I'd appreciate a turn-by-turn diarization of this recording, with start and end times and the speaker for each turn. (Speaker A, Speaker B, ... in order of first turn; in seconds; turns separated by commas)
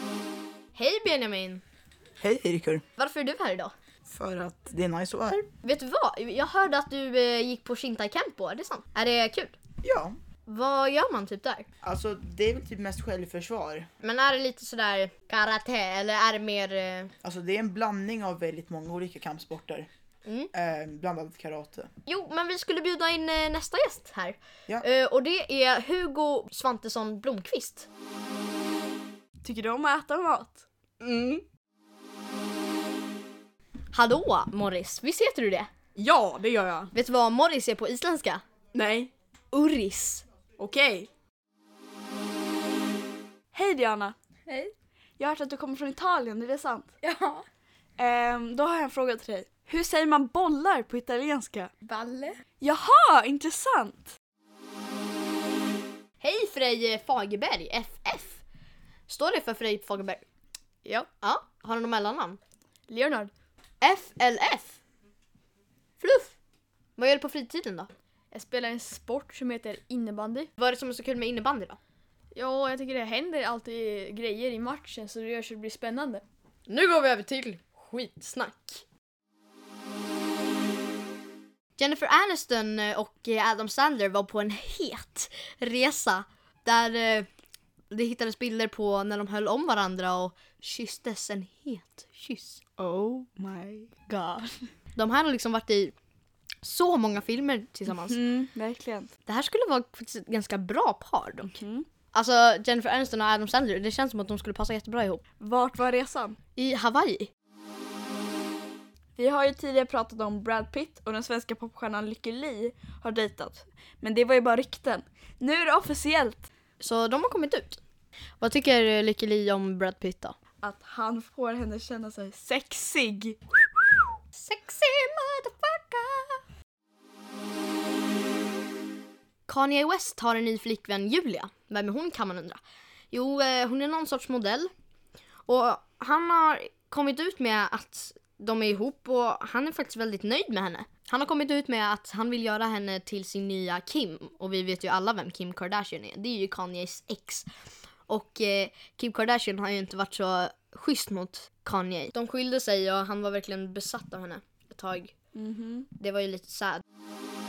Speaker A: 0.8-1.6, Speaker B: 2.2-2.8, Speaker A: 3.0-3.7, Speaker B: 4.0-5.4, Speaker A: 5.3-9.6, Speaker B: 9.8-10.2, Speaker A: 10.4-11.7, Speaker B: 11.8-13.9, Speaker A: 14.0-17.1, Speaker B: 17.2-19.9, Speaker A: 20.2-20.5, Speaker B: 20.5-21.9, Speaker A: 22.1-27.9, Speaker C: 29.4-30.6, Speaker A: 33.9-35.7, Speaker C: 36.0-36.8, Speaker A: 36.9-38.4, Speaker A: 39.5-40.2, Speaker C: 43.5-44.1, Speaker C: 45.2-46.9, Speaker D: 47.0-47.4, Speaker C: 48.0-51.7, Speaker D: 51.9-52.4, Speaker C: 52.6-54.2, Speaker A: 56.2-58.4, Speaker A: 59.1-60.2, Speaker A: 61.0-62.4, Speaker D: 62.9-63.3, Speaker A: 63.8-64.8, Speaker A: 66.0-66.4, Speaker A: 67.0-67.9, Speaker D: 68.3-70.5, Speaker A: 70.6-71.8, Speaker D: 72.3-76.2, Speaker A: 76.7-78.8, Speaker A: 81.8-87.3, Speaker A: 87.9-92.6, Speaker C: 92.8-94.6, Speaker A: 94.9-95.9, Speaker A: 96.6-98.2, Speaker C: 97.9-99.1, Speaker A: 99.2-101.5, Speaker C: 101.5-101.9, Speaker A: 102.1-105.2, Speaker C: 105.4-106.4, Speaker A: 106.5-107.3, Speaker C: 109.2-116.5, Speaker A: 116.8-117.8, Speaker A: 118.4-120.4, Speaker C: 120.6-123.6, Speaker A: 124.4-126.4, Speaker A: 129.5-132.6, Speaker A: 133.1-134.7, Speaker A: 135.5-147.5, Speaker A: 148.1-155.1, Speaker C: 155.3-155.9, Speaker A: 155.9-156.8